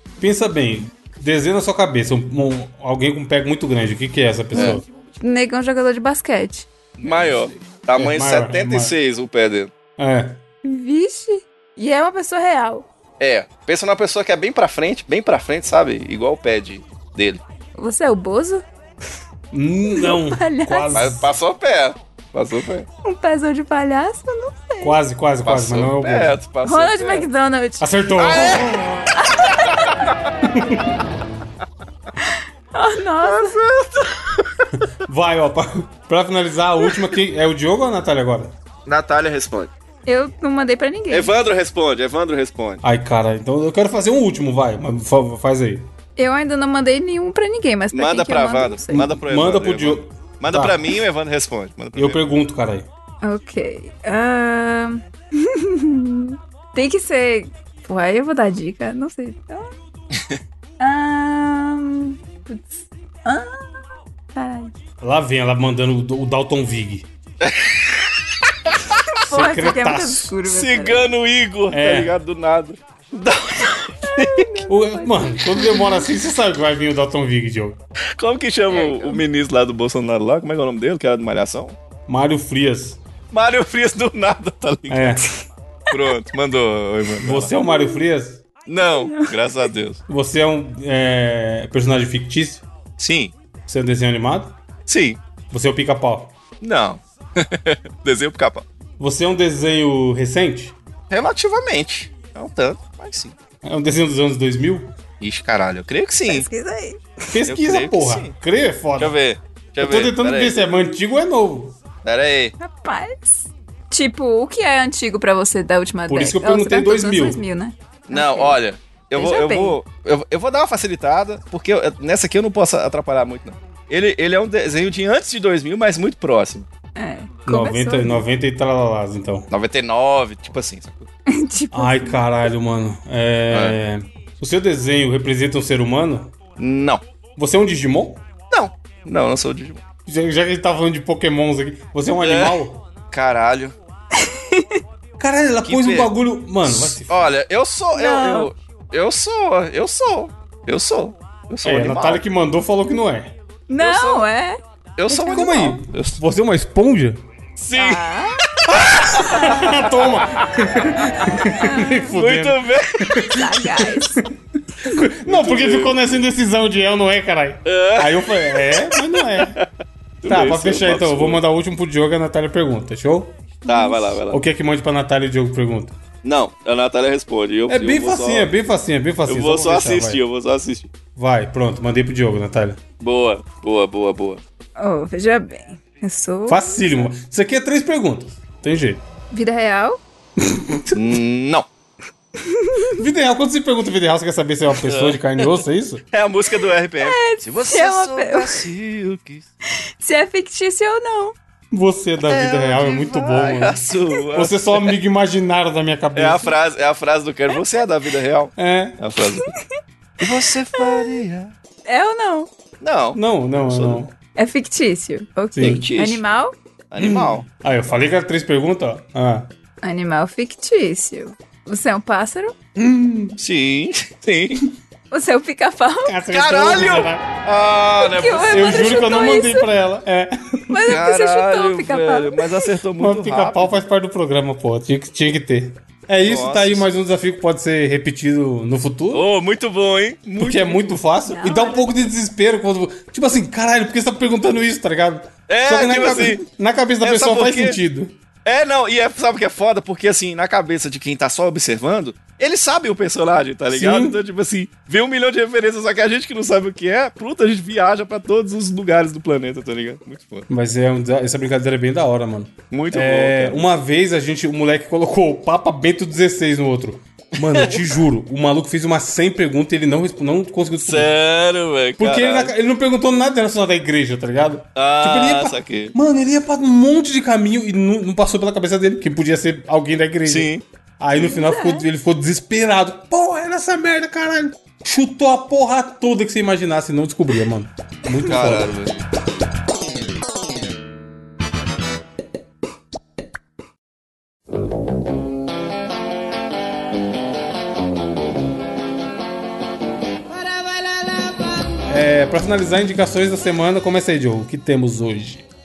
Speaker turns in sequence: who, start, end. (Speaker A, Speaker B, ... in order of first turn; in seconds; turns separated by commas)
Speaker A: 0.2-4.8, Speaker B: 4.5-4.8, Speaker C: 4.5-6.7, Speaker B: 7.0-9.7, Speaker A: 8.0-8.9, Speaker A: 10.0-10.4, Speaker C: 10.6-12.9, Speaker B: 13.2-17.4, Speaker C: 17.8-18.6, Speaker A: 19.5-21.3, Speaker C: 19.9-21.0, Speaker B: 20.9-22.9, Speaker C: 23.0-25.0, Speaker A: 24.8-26.4, Speaker B: 25.4-27.3, Speaker C: 26.6-27.9, Speaker A: 27.8-28.9, Speaker B: 28.2-29.1, Speaker C: 29.2-29.6, Speaker A: 30.5-30.8, Speaker C: 32.2-33.6, Speaker B: 33.2-34.4, Speaker A: 35.1-38.5, Speaker B: 38.9-39.7, Speaker C: 40.1-41.3, Speaker B: 41.1-42.8, Speaker A: 42.8-45.9, Speaker C: 46.2-49.0, Speaker B: 47.9-52.2, Speaker A: 48.9-51.0, Speaker A: 52.0-52.9, Speaker C: 53.2-59.7, Speaker C: 60.8-63.8, Speaker C: 64.3-64.7, Speaker A: 65.0-67.1, Speaker B: 67.4-68.1, Speaker C: 69.1-71.1, Speaker A: 69.3-70.3, Speaker B: 70.5-74.5, Speaker A: 71.7-72.1, Speaker C: 74.0-76.1, Speaker A: 74.7-77.8, Speaker B: 78.2-81.8, Speaker C: 78.7-79.2, Speaker A: 82.1-83.0, Speaker B: 83.3-85.2, Speaker A: 84.9-85.2, Speaker B: 85.9-87.5, Speaker A: 87.2-88.4, Speaker C: 87.7-88.0, Speaker B: 88.7-90.0, Speaker C: 88.8-89.3, Speaker A: 90.1-92.7, Speaker B: 93.0-93.3, Speaker A: 93.7-94.6, Speaker B: 94.9-95.2, Speaker A: 95.5-96.3, Speaker B: 96.6-98.7, Speaker A: 99.0-100.8, Speaker B: 101.1-103.3, Speaker A: 103.6-104.9, Speaker B: 105.2-106.5, Speaker C: 106.3-107.3, Speaker A: 107.3-109.2, Speaker B: 107.5-108.3, Speaker B: 109.0-110.6, Speaker A: 109.8-111.8, Speaker B: 112.0-112.5, Speaker C: 112.6-118.6, Speaker A: 116.1-117.4, Speaker B: 118.1-126.7, Speaker C: 119.2-119.8, Speaker C: 127.0-128.2, Speaker A: 127.5-129.5, Speaker B: 129.5-131.1, Speaker C: 131.3-132.2, Speaker A: 131.7-136.3, Speaker B: 133.5-133.8, Speaker B: 136.6-137.0, Speaker A: 137.4-138.2, Speaker B: 138.5-139.8, Speaker A: 140.1-142.8, Speaker B: 142.2-143.8, Speaker C: 144.2-144.8, Speaker A: 145.2-147.2, Speaker B: 145.6-146.1, Speaker B: 146.6-152.2, Speaker C: 147.9-148.5, Speaker A: 151.7-153.3, Speaker C: 153.7-154.6, Speaker B: 153.8-154.3, Speaker B: 155.0-156.2, Speaker A: 155.1-157.2, Speaker B: 157.6-158.1, Speaker C: 157.8-158.4, Speaker B: 158.7-159.6, Speaker A: 159.0-164.3, Speaker C: 161.6-162.1, Speaker B: 162.1-163.3, Speaker C: 163.3-164.2, Speaker A: 164.8-169.6, Speaker B: 165.2-166.2, Speaker B: 167.7-169.7, Speaker B: 170.2-171.4, Speaker A: 170.3-173.4, Speaker C: 173.7-174.2, Speaker B: 173.7-174.4, Speaker A: 174.3-176.0, Speaker B: 176.2-178.5, Speaker A: 177.7-180.2, Speaker B: 179.3-180.9, Speaker A: 181.2-182.8, Speaker B: 183.0-184.4, Speaker C: 184.8-186.9, Speaker A: 186.5-189.0, Speaker C: 189.3-190.0, Speaker A: 190.4-190.9, Speaker B: 190.9-191.7, Speaker C: 192.4-192.9, Speaker A: 193.0-196.0, Speaker B: 194.7-195.6, Speaker B: 196.1-199.5, Speaker C: 197.0-198.6, Speaker C: 200.0-201.3, Speaker A: 201.7-203.8, Speaker B: 202.2-205.0, Speaker A: 204.3-206.5, Speaker B: 206.2-209.5, Speaker A: 208.6-209.0, Speaker B: 210.2-211.5, Speaker C: 210.8-211.2, Speaker C: 211.9-212.5, Speaker B: 212.8-214.0, Speaker A: 213.2-214.1, Speaker C: 214.4-216.5, Speaker A: 215.6-215.8, Speaker B: 215.6-216.2, Speaker B: 216.9-217.4, Speaker A: 217.0-219.5, Speaker C: 219.8-222.6, Speaker A: 222.8-223.4, Speaker B: 223.4-224.6, Speaker C: 225.1-226.2, Speaker A: 226.1-227.2, Speaker B: 226.3-229.0, Speaker C: 228.0-229.7, Speaker A: 228.5-230.8, Speaker C: 230.7-232.6, Speaker B: 230.9-233.8, Speaker A: 233.0-239.2, Speaker B: 236.2-236.9, Speaker B: 239.1-241.0, Speaker A: 240.4-248.1, Speaker C: 241.3-241.9, Speaker B: 245.5-246.4, Speaker B: 247.0-247.8, Speaker B: 248.4-260.5, Speaker A: 253.7-254.2, Speaker A: 260.5-271.1, Speaker B: 262.7-263.7, Speaker B: 267.4-268.0, Speaker B: 270.9-272.5, Speaker A: 272.0-280.5, Speaker B: 274.8-275.9, Speaker B: 280.2-280.6, Speaker A: 281.0-288.7, Speaker C: 281.1-281.9, Speaker B: 288.2-288.9, Speaker A: 301.9-305.5